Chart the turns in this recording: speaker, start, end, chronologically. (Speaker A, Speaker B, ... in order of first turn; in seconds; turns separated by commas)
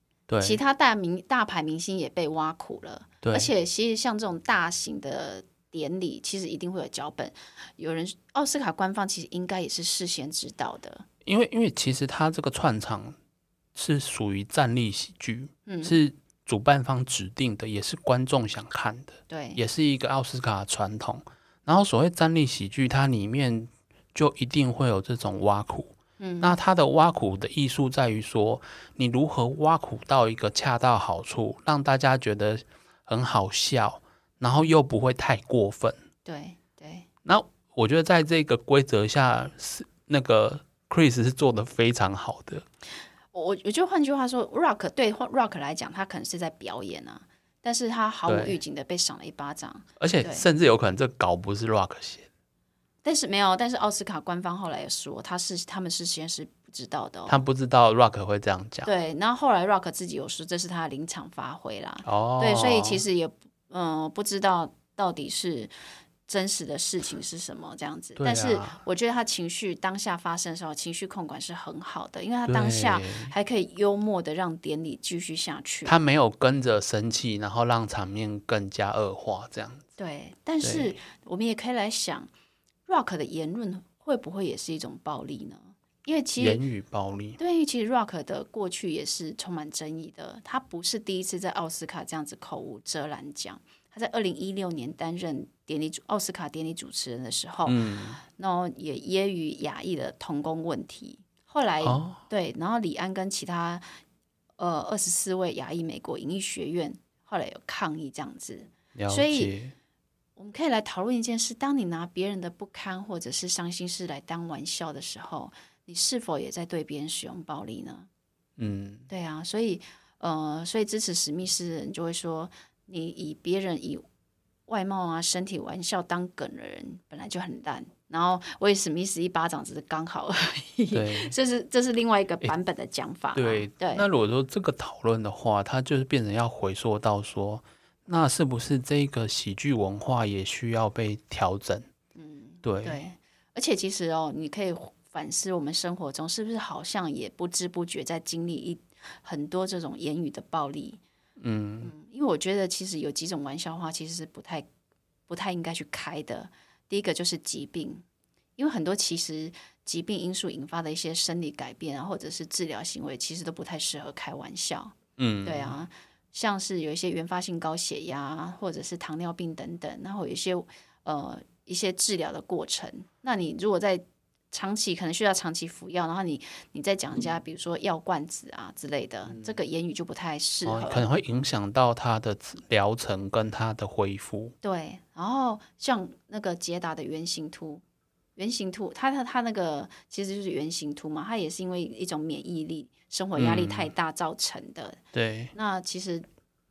Speaker A: 0.3-0.6, Speaker B: 0.4-11.1, Speaker A: 3.2-3.5, Speaker A: 11.2-13.2, Speaker A: 13.8-36.0, Speaker B: 15.7-16.0, Speaker B: 19.3-19.6, Speaker B: 26.2-26.6, Speaker B: 36.2-37.1, Speaker A: 37.2-42.6, Speaker B: 43.3-50.4, Speaker A: 48.3-48.6, Speaker A: 50.0-52.3, Speaker B: 53.0-57.4, Speaker A: 57.3-58.9, Speaker B: 58.9-65.7, Speaker A: 62.0-63.0, Speaker B: 66.3-76.0, Speaker A: 68.2-68.8, Speaker A: 72.5-73.3, Speaker A: 75.9-79.9, Speaker B: 80.0-82.3, Speaker A: 80.6-80.9, Speaker B: 82.9-86.6, Speaker A: 86.4-87.4, Speaker B: 87.4-103.8, Speaker A: 97.7-98.2, Speaker A: 101.8-102.2, Speaker B: 104.6-109.5, Speaker A: 108.9-109.7, Speaker B: 110.4-118.1, Speaker A: 118.6-119.1, Speaker B: 119.1-124.0, Speaker B: 124.7-134.1, Speaker A: 130.9-131.3, Speaker A: 133.3-141.9, Speaker B: 142.2-151.0, Speaker A: 142.6-143.0, Speaker A: 151.4-151.9, Speaker B: 151.8-154.7, Speaker B: 155.3-158.0, Speaker B: 158.6-181.1, Speaker A: 165.2-165.8, Speaker A: 179.3-179.6, Speaker A: 180.7-184.5, Speaker B: 184.6-187.8, Speaker B: 188.4-195.0, Speaker A: 193.3-193.9, Speaker A: 195.1-195.5, Speaker B: 195.5-196.3